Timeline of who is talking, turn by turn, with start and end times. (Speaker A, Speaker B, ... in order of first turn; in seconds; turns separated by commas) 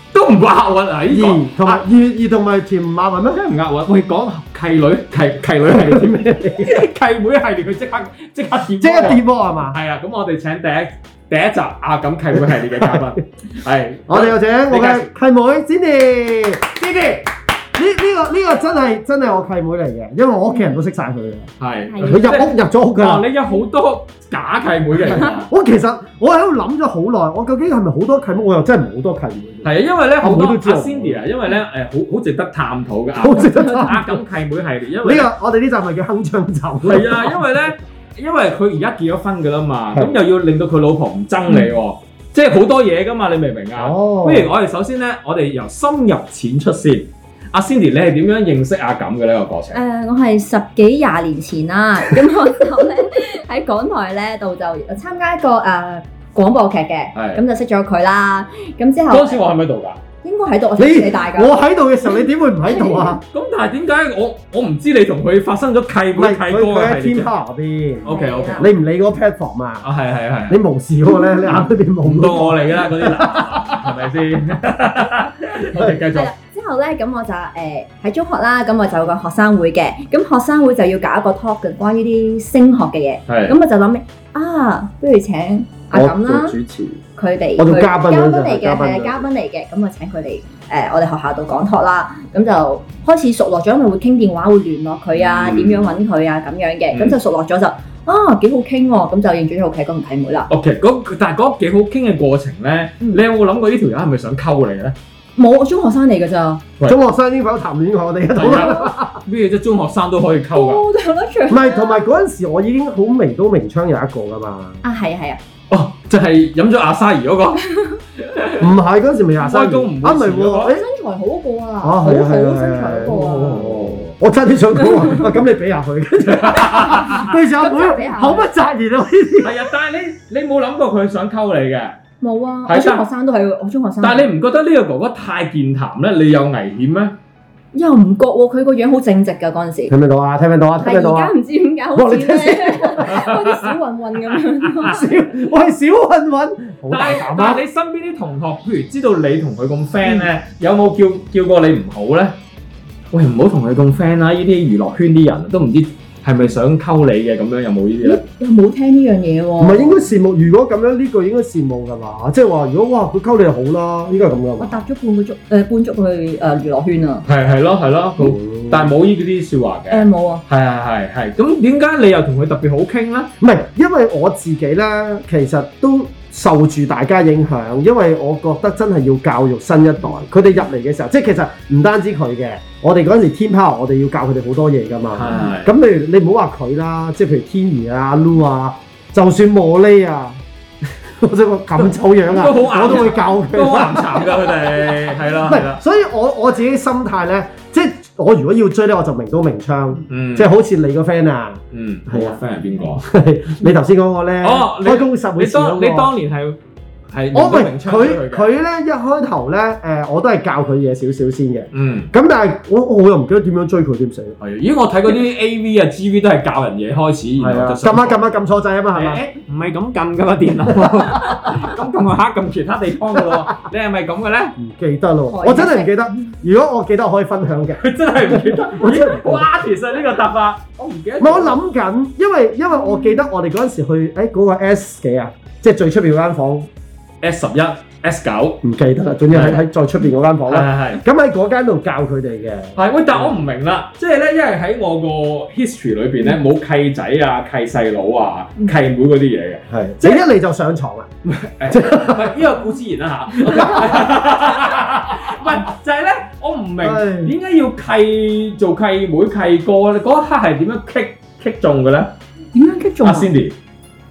Speaker A: 0.1-1.8, Speaker B: 1.1-3.4, Speaker A: 3.3-15.1, Speaker B: 5.7-6.8, Speaker B: 8.8-9.8, Speaker B: 12.6-13.1, Speaker B: 14.1-16.8, Speaker A: 16.8-17.2, Speaker B: 17.8-21.5, Speaker A: 21.6-25.5, Speaker B: 22.0-23.3, Speaker B: 25.2-31.2, Speaker A: 29.6-35.3, Speaker B: 33.2-34.2, Speaker C: 33.6-33.9, Speaker B: 35.0-37.4, Speaker A: 36.8-49.8, Speaker B: 39.9-40.2, Speaker B: 43.8-44.5, Speaker C: 49.7-59.4, Speaker A: 57.1-57.4, Speaker A: 59.1-60.0, Speaker C: 60.2-61.6, Speaker B: 60.8-63.2, Speaker C: 62.7-63.1, Speaker A: 63.3-67.3, Speaker B: 66.2-69.9, Speaker A: 68.0-68.7, Speaker C: 68.1-68.7, Speaker A: 69.8-70.6, Speaker B: 70.5-73.7, Speaker A: 71.5-76.3, Speaker B: 75.7-76.0, Speaker C: 76.1-86.6, Speaker A: 83.3-83.6, Speaker B: 85.9-87.0, Speaker C: 87.2-100.5, Speaker B: 87.6-89.3, Speaker A: 95.1-95.9, Speaker A: 100.5-105.0, Speaker C: 105.4-106.6, Speaker B: 106.8-109.2, Speaker A: 108.4-110.8, Speaker C: 108.4-108.9, Speaker C: 110.5-112.0, Speaker B: 111.5-114.8, Speaker C: 114.8-115.4, Speaker A: 115.7-117.7, Speaker A: 118.2-118.7, Speaker B: 118.6-120.8, Speaker A: 119.4-120.8, Speaker C: 120.7-123.7, Speaker B: 121.8-129.6, Speaker A: 123.1-124.1, Speaker A: 126.2-127.3, Speaker C: 126.7-128.5, Speaker A: 129.4-132.0, Speaker C: 132.2-134.3, Speaker A: 132.7-133.0, Speaker A: 134.0-137.2, Speaker C: 137.7-139.9, Speaker B: 139.9-141.3, Speaker C: 140.8-145.0, Speaker B: 141.9-143.2, Speaker A: 143.1-143.6, Speaker B: 144.8-147.6, Speaker A: 146.9-152.4, Speaker A: 153.1-158.2, Speaker C: 158.0-160.1, Speaker B: 159.6-164.8, Speaker C: 164.6-167.2, Speaker A: 167.3-173.3, Speaker B: 168.2-168.9, Speaker C: 169.9-170.4, Speaker B: 173.4-190.4, Speaker A: 185.1-185.7, Speaker B: 191.1-202.4, Speaker A: 191.8-195.8, Speaker A: 200.1-200.5, Speaker A: 201.7-203.0, Speaker B: 203.0-206.1, Speaker A: 204.4-206.6, Speaker A: 207.1-208.5, Speaker B: 207.3-214.4, Speaker A: 211.7-212.1, Speaker A: 214.4-218.2, Speaker B: 217.4-219.2, Speaker A: 218.9-224.6, Speaker B: 224.6-229.5, Speaker C: 225.3-225.9, Speaker A: 227.8-231.6, Speaker B: 231.2-236.7, Speaker A: 237.2-238.6, Speaker B: 238.6-243.3, Speaker A: 239.3-239.6, Speaker A: 240.5-241.0, Speaker A: 242.8-250.2, Speaker B: 249.7-252.4, Speaker A: 251.3-262.1, Speaker B: 253.4-254.0, Speaker B: 256.8-257.3, Speaker C: 262.5-263.3, Speaker A: 263.0-263.6